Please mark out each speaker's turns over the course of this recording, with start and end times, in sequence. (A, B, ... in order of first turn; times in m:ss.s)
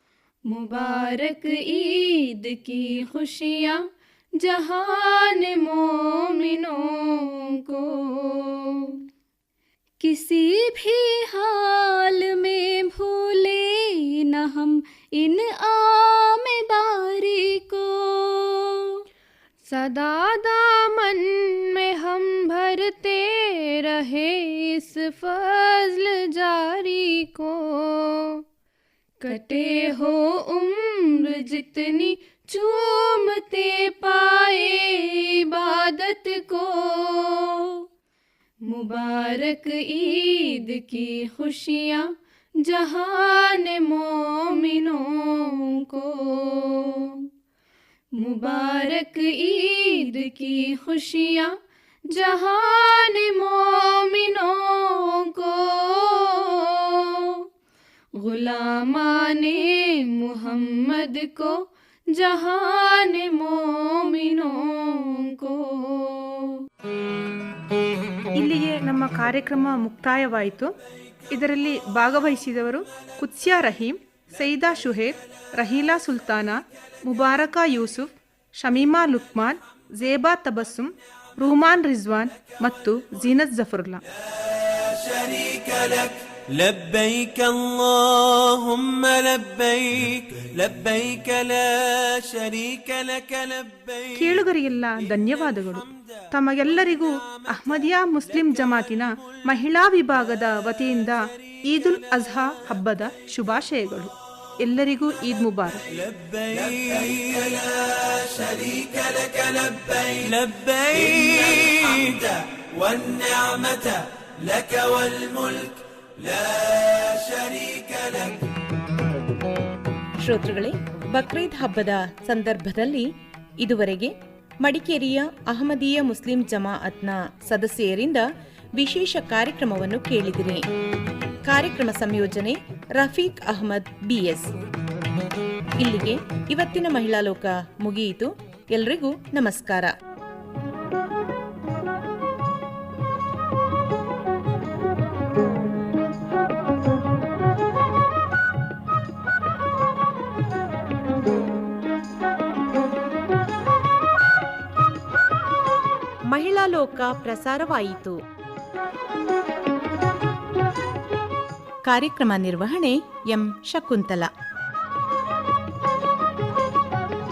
0:00.5-0:03.8 A
0:04.4-0:09.0 A
0:10.0-0:18.9 B
0:19.7-0:28.4 A
0:29.2-0:37.8 A
0:38.7-0:42.1 A
0:42.6-0:47.3 A
0:48.2-0:51.5 A
0:52.1-0:57.4 A
0:58.2-1:01.6 A
1:02.1-1:06.6 A
1:08.4-1:10.7 C
1:11.3-1:24.0 C
1:24.5-1:34.4 D
1:34.2-1:45.8 C
1:45.9-1:58.4 D
2:00.2-2:03.1 E
2:03.6-2:10.6 E
2:11.4-2:14.5 E
2:15.8-2:19.9 E
2:36.3-2:38.2 E
2:41.8-2:44.3 E